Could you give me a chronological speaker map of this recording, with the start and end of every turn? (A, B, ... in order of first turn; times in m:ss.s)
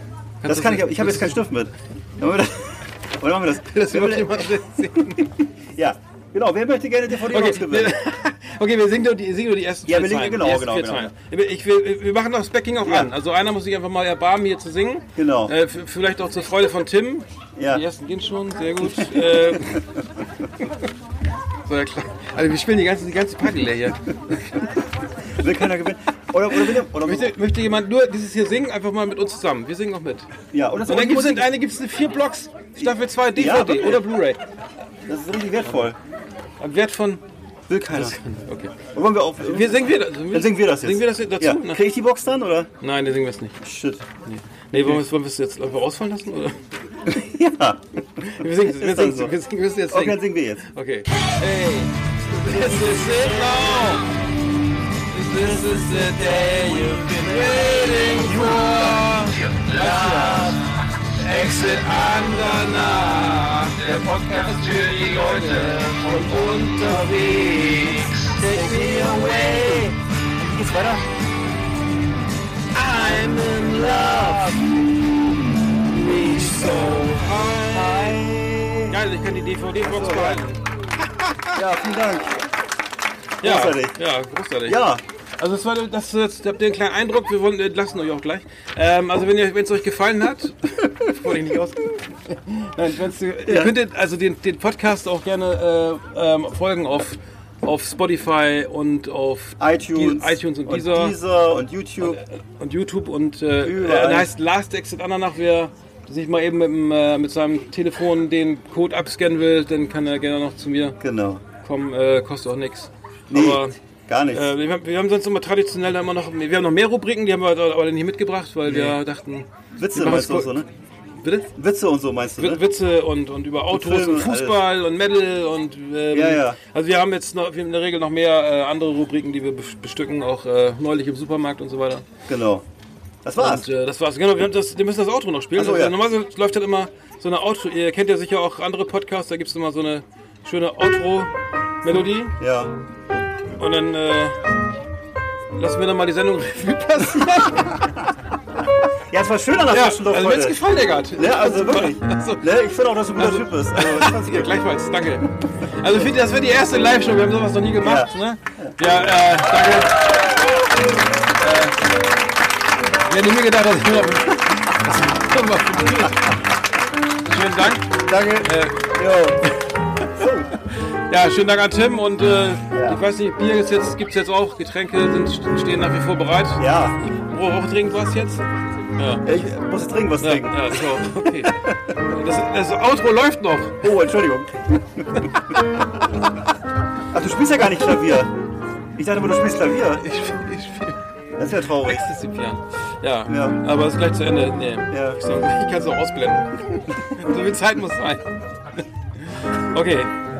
0:00.4-0:01.4 A
0:00.4-0:08.0 B
0:03.7-0:05.3 A
0:07.2-0:19.8 A
0:09.8-0:11.1 B
0:12.8-0:13.1 B
0:15.2-0:15.5 B
0:17.6-0:17.8 B
0:18.8-0:19.8 B
0:21.6-0:24.6 A
0:25.4-0:27.3 B
0:26.9-0:30.3 A
0:30.5-0:31.5 B
0:30.9-0:34.4 A
0:32.8-0:34.1 B
0:35.1-0:36.0 B
0:36.6-0:37.2 A
0:37.7-0:38.2 B
0:37.9-0:38.8 A
0:38.9-0:42.7 B
0:39.4-0:41.8 A
0:42.8-0:43.6 A
0:43.6-0:44.0 B
0:44.2-0:46.6 A
0:47.1-0:47.8 B
0:48.2-0:54.0 A
0:48.4-0:49.3 B
0:49.9-0:50.6 B
0:55.1-1:00.6 A
0:56.4-1:00.6 C
0:58.2-0:58.7 B
1:01.2-1:09.9 C
1:01.2-1:06.9 A
1:08.4-1:09.9 A
1:10.4-1:11.0 B
1:12.7-1:14.5 A
1:13.3-1:14.1 C
1:13.9-1:14.6 B
1:15.9-1:17.5 C
1:16.2-1:18.2 A
1:18.0-1:18.8 B
1:18.9-1:20.6 A
1:19.8-1:20.4 B
1:21.1-1:21.6 A
1:21.5-1:22.4 B
1:23.4-1:24.0 B
1:23.4-1:24.8 A
1:24.6-1:25.0 B
1:25.4-1:41.2 A
1:33.4-1:33.7 B
1:39.6-1:42.2 B
1:42.0-1:51.0 A
1:43.6-1:44.3 B
1:51.0-1:51.4 B
1:51.6-1:53.7 A
1:53.3-1:54.5 B
1:54.3-2:00.6 A
1:58.6-1:59.0 B
1:59.8-2:00.7 B
2:01.2-2:01.5 A
2:01.5-2:02.6 B
2:02.4-2:12.1 A
2:03.7-2:04.6 B
2:06.1-2:06.6 B
2:12.3-2:12.6 B
2:13.2-2:13.6 B
2:13.4-2:21.3 A
2:15.5-2:16.0 B
2:21.8-2:22.4 A
2:21.9-2:22.8 B
2:23.6-2:24.4 A
2:25.6-2:28.0 A
2:29.1-2:30.6 B
2:29.7-2:32.5 A
2:31.1-2:34.6 B
2:33.1-2:40.0 A
2:37.8-2:39.0 B
2:41.4-2:41.8 A
2:43.1-2:46.4 A
2:47.2-2:48.9 A
2:48.0-2:49.4 B
2:50.1-2:50.5 B
2:51.0-2:58.4 A
2:52.7-2:53.0 B
2:56.6-2:57.0 B
2:59.0-2:59.3 A
2:59.2-3:01.8 B
3:00.2-3:01.5 A
3:02.0-3:03.8 A
3:03.8-3:05.3 B
3:07.1-3:08.3 B
3:09.0-3:10.0 B
3:10.0-3:11.0 A
3:11.4-3:12.0 B
3:11.8-3:18.8 A
3:13.3-3:13.6 B
3:14.9-3:15.2 B
3:19.7-3:20.1 A